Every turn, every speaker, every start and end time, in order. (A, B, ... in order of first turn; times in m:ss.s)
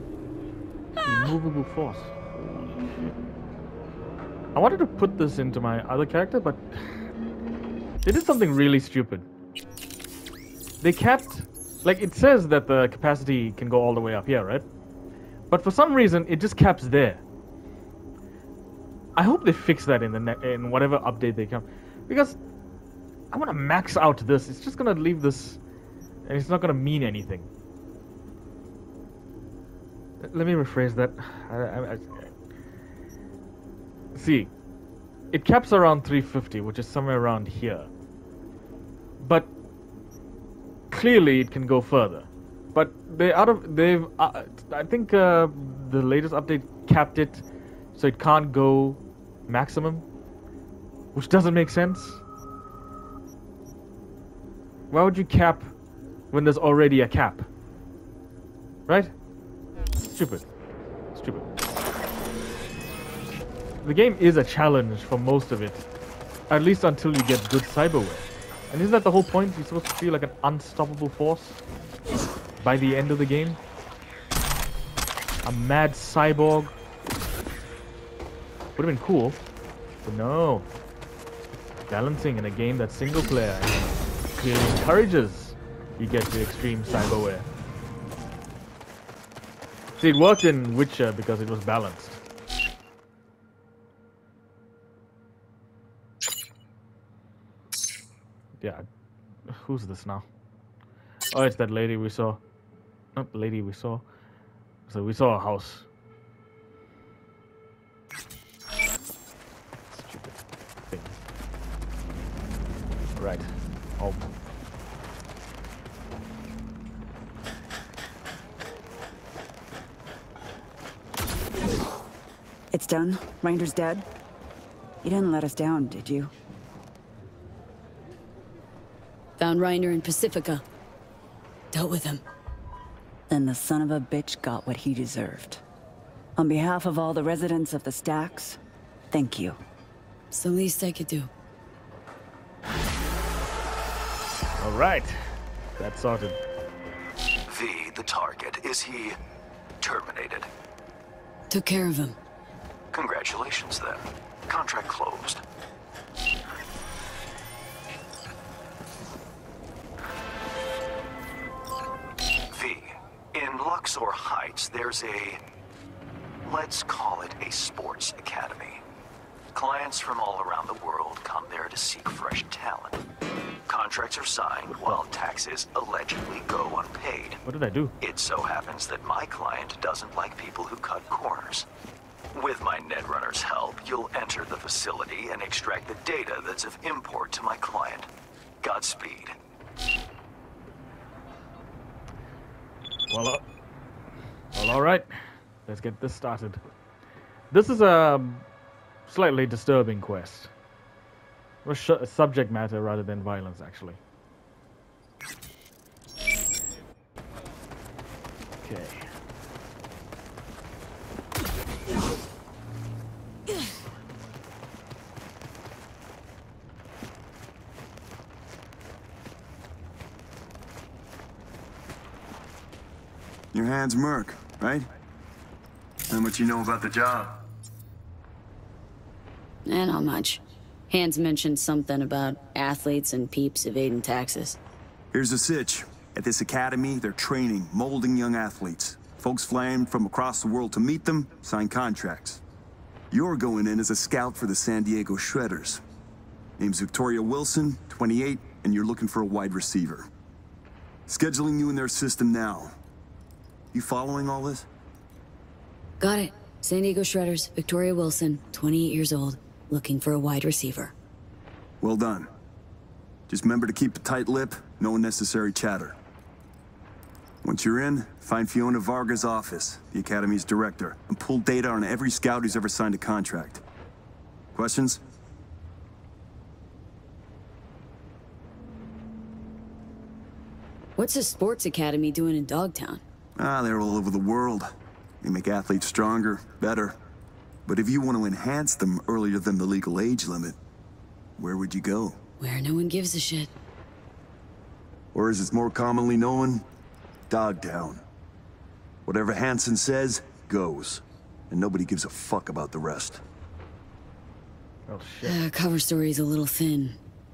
0:01.0-0:02.2 A
0:04.5-0:06.8 A
0:08.0-0:09.2 A
0:10.8-0:14.6 A
0:15.5-0:17.2 A
0:19.2-0:22.4 A
0:23.3-0:25.6 A
0:26.2-0:27.5 A
0:30.2-0:32.3 A
0:34.1-0:34.5 A
0:35.3-0:37.9 A
0:39.2-0:39.5 A
0:40.9-0:47.4 A
0:47.9-0:50.0 A
0:51.1-0:52.2 A
0:54.9-0:55.7 A
0:56.3-0:57.5 A
1:00.0-1:00.4 A
1:01.1-1:01.5 A
1:03.8-1:05.8 A
1:06.5-1:11.6 A
1:12.6-1:13.6 A
1:15.4-1:16.7 A
1:18.8-1:19.4 A
1:20.0-1:20.7 A
1:21.9-1:27.5 A
1:30.0-1:32.1 A
1:38.6-1:38.9 A
1:39.4-1:40.2 A
1:41.3-1:42.4 A
1:43.1-1:44.0 A
1:44.9-1:45.8 A
1:49.9-1:51.2 A
1:53.2-1:54.2 A
2:02.7-2:04.0 B
2:05.0-2:06.3 B
2:09.4-2:10.6 C
2:11.7-2:12.2 C
2:13.3-2:15.6 B
2:16.4-2:18.6 B
2:19.1-2:19.6 B
2:20.3-2:21.3 C
2:24.6-2:26.4 A
2:27.5-2:29.2 D
2:29.8-2:30.5 D
2:31.5-2:32.2 C
2:32.9-2:35.4 D
2:42.5-2:45.4 D
2:46.4-2:48.8 D
2:49.5-2:53.0 D
2:53.7-2:57.4 D
2:54.7-2:55.0 A
2:57.4-2:57.9 A
2:58.0-3:01.6 D
3:02.3-3:08.1 D
3:08.6-3:09.3 D
3:13.1-3:13.4 A
3:14.5-3:15.1 A
3:15.6-3:16.6 A
3:17.5-3:18.4 A
3:19.1-3:20.5 A
3:21.6-3:24.0 A
3:28.6-3:29.0 A
3:43.5-3:44.8 E
3:46.1-3:47.4 E
3:49.6-3:54.6 C
3:55.1-4:02.4 E
4:03.1-4:05.8 E
4:06.6-4:10.1 E
4:11.1-4:12.7 E
4:13.7-4:14.6 E
4:16.0-4:20.9 C
4:21.8-4:22.3 E
4:23.3-4:26.0 E
4:27.4-4:33.6 E
4:34.5-4:35.0 E
4:41.0-4:43.0 C
4:43.4-4:44.7 E
4:45.2-4:46.9 E
4:47.6-4:50.6 E
4:51.4-4:52.2 E
4:52.4-4:53.5 C
4:55.1-4:56.6 E
4:57.3-4:58.0 E
4:59.0-5:03.2 E
5:04.9-5:05.4 A
5:05.2-5:07.0 C